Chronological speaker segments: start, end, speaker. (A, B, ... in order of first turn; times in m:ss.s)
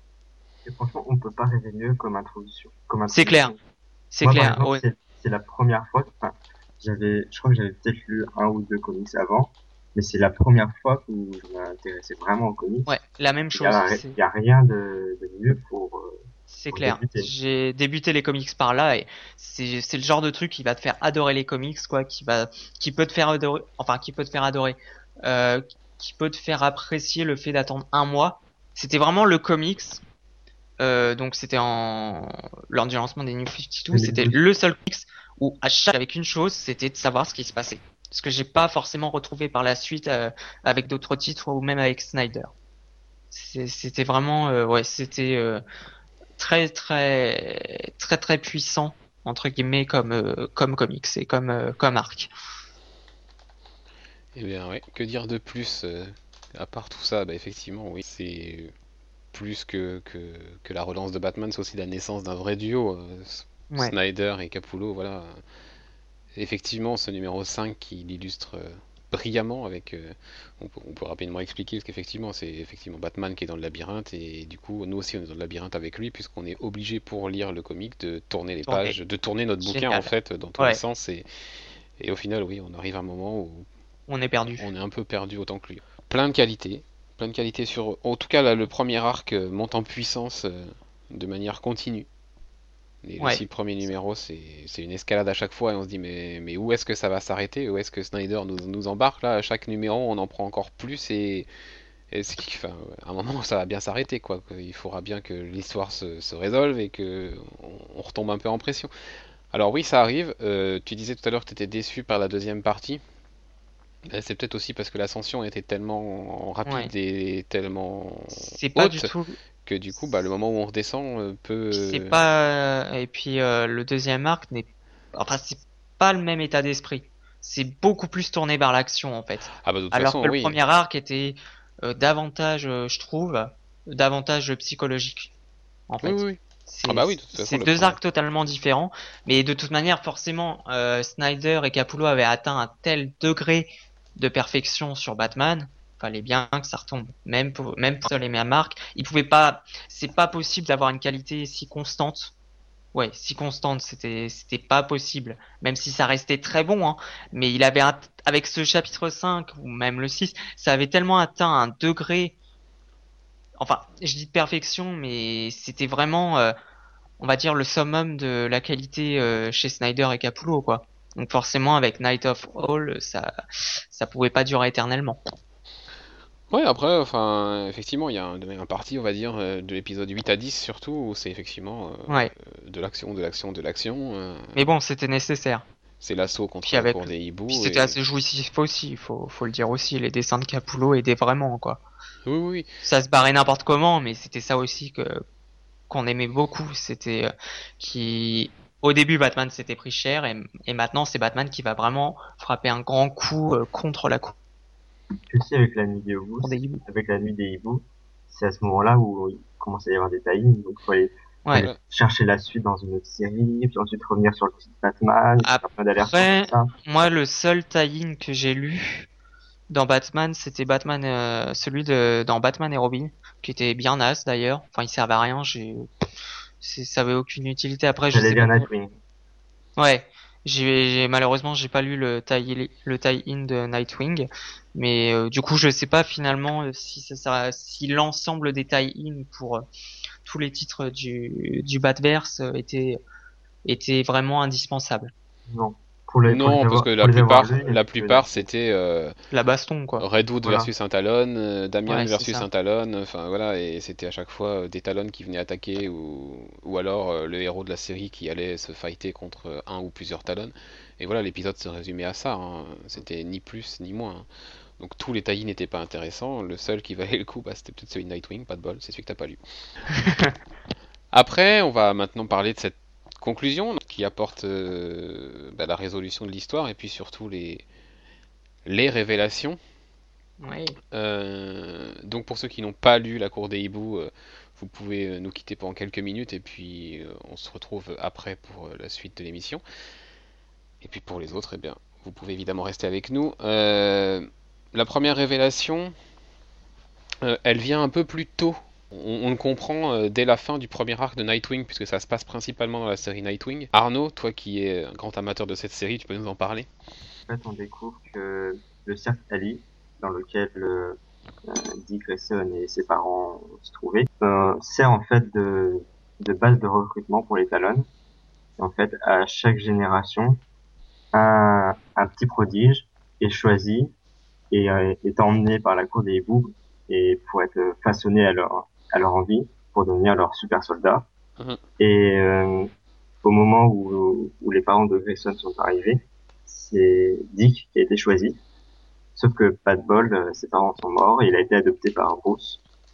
0:00.6-0:03.6 A
0:03.1-0:03.6 B
0:04.1-0:04.8 B
0:04.2-0:12.9 A
0:12.9-0:14.2 B
0:13.5-0:17.3 A
0:16.5-0:30.0 B
0:30.8-0:42.5 B
0:33.9-0:34.4 A
0:43.3-0:45.6 B
0:46.4-0:52.3 B
0:54.4-0:58.7 C
0:59.3-1:05.4 C
1:06.4-1:21.3 C
1:18.7-1:19.0 B
1:19.6-1:20.8 B
1:22.0-1:23.7 C
1:24.1-1:24.7 B
1:24.6-1:32.1 C
1:33.0-1:41.5 C
1:42.1-1:48.9 C
1:49.5-1:53.0 C
1:54.1-1:59.1 C
1:56.6-1:56.9 B
1:58.3-1:59.4 B
1:59.6-2:02.3 C
2:01.7-2:15.3 B
2:09.6-2:10.6 C
2:15.9-2:32.3 B
2:16.0-2:18.0 C
2:32.9-2:42.4 B
2:43.6-2:46.5 B
2:47.2-2:53.3 B
2:53.9-2:55.2 B
2:56.5-3:04.6 C
3:04.6-3:05.6 B
3:06.0-3:08.0 C
3:06.6-3:11.8 B
3:12.3-3:12.7 C
3:12.8-3:15.2 B
3:15.9-3:24.4 B
3:25.3-3:36.7 A
3:26.4-3:26.8 B
3:35.4-3:39.1 B
3:39.7-3:45.9 B
3:46.6-3:48.7 B
3:48.1-3:49.0 A
3:49.8-3:59.7 B
4:00.2-4:03.0 B
4:03.7-4:05.1 B
4:05.5-4:08.5 A
4:06.3-4:09.2 C
4:09.3-4:10.0 B
4:10.0-4:24.2 C
4:10.4-4:10.7 A
4:11.9-4:12.5 B
4:24.8-4:29.4 C
4:29.9-4:30.3 B
4:31.1-4:37.6 C
4:38.6-4:39.6 C
4:40.4-4:40.8 B
4:40.9-4:49.6 C
4:50.8-4:55.9 C
4:57.2-5:06.7 C
5:07.3-5:17.9 A
5:18.6-5:20.4 A
5:21.1-5:23.9 A
5:24.5-5:31.1 A
5:31.8-5:32.7 A
5:33.2-5:38.4 A
5:39.2-5:42.6 A